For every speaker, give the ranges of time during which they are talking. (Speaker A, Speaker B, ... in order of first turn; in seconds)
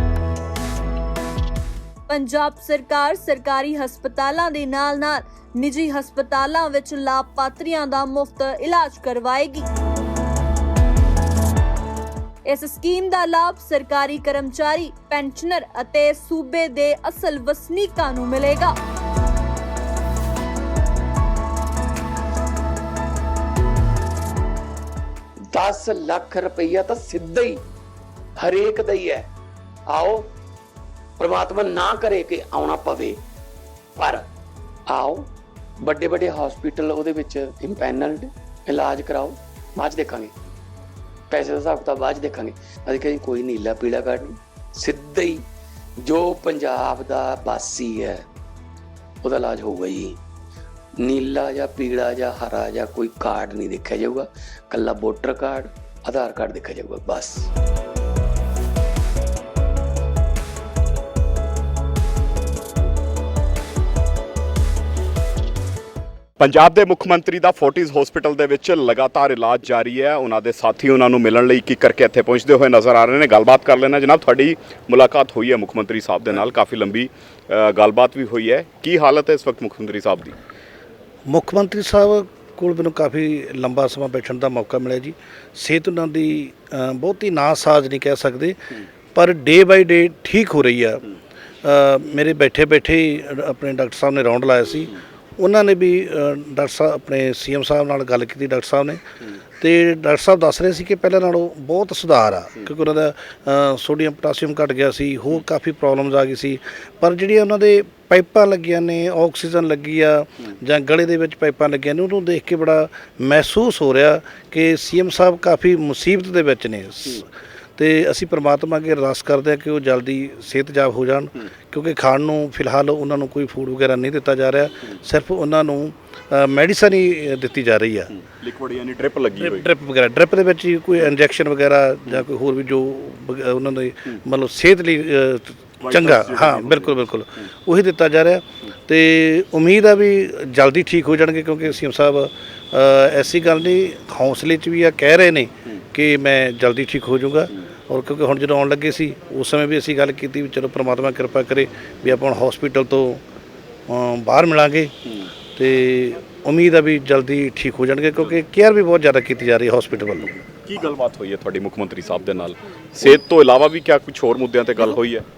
Speaker A: 2.1-9.7, 12.5-18.7
Speaker B: 25.5-27.6, 28.4-29.3, 29.9-30.3, 31.2-33.2, 34.0-34.3, 34.9-40.3, 41.3-45.5, 46.0-48.3, 49.2-50.2, 51.0-57.5
Speaker C: 66.4-80.4, 128.2-129.7, 135.8-136.9, 160.5-165.2
Speaker D: 81.3-88.6, 89.2-91.0, 91.6-99.0, 99.6-128.2, 129.4-153.2, 153.9-154.9, 155.6-160.4